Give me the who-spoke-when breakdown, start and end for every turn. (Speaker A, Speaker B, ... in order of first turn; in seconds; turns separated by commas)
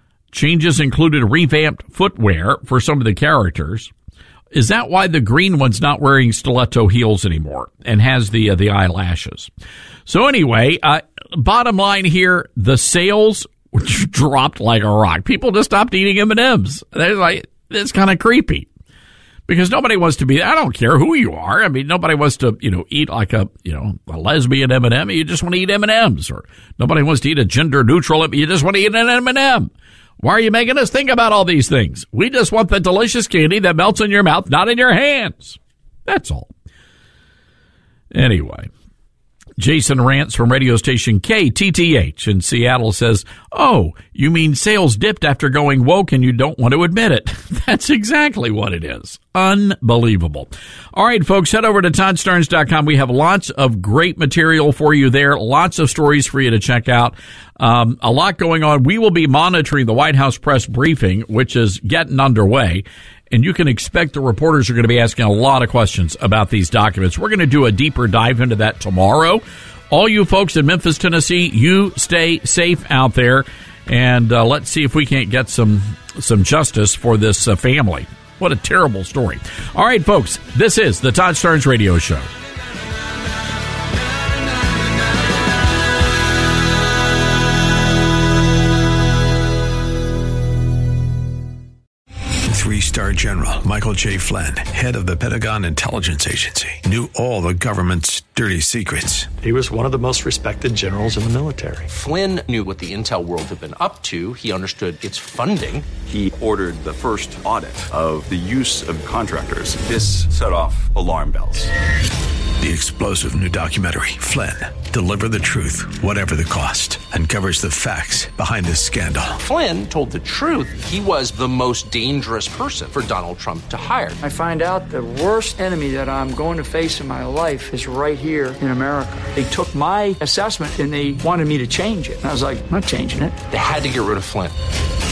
Speaker A: 0.3-3.9, Speaker A: 4.5-9.5, Speaker A: 10.1-18.7, Speaker A: 19.5-36.5, Speaker A: 38.1-38.7, Speaker A: 39.6-82.3, Speaker B: 92.5-99.3, Speaker C: 99.4-101.9, Speaker D: 101.9-105.9, Speaker E: 106.1-111.7, Speaker B: 112.6-119.4, Speaker D: 119.4-124.2, Speaker F: 124.2-133.3, Speaker D: 133.5-134.5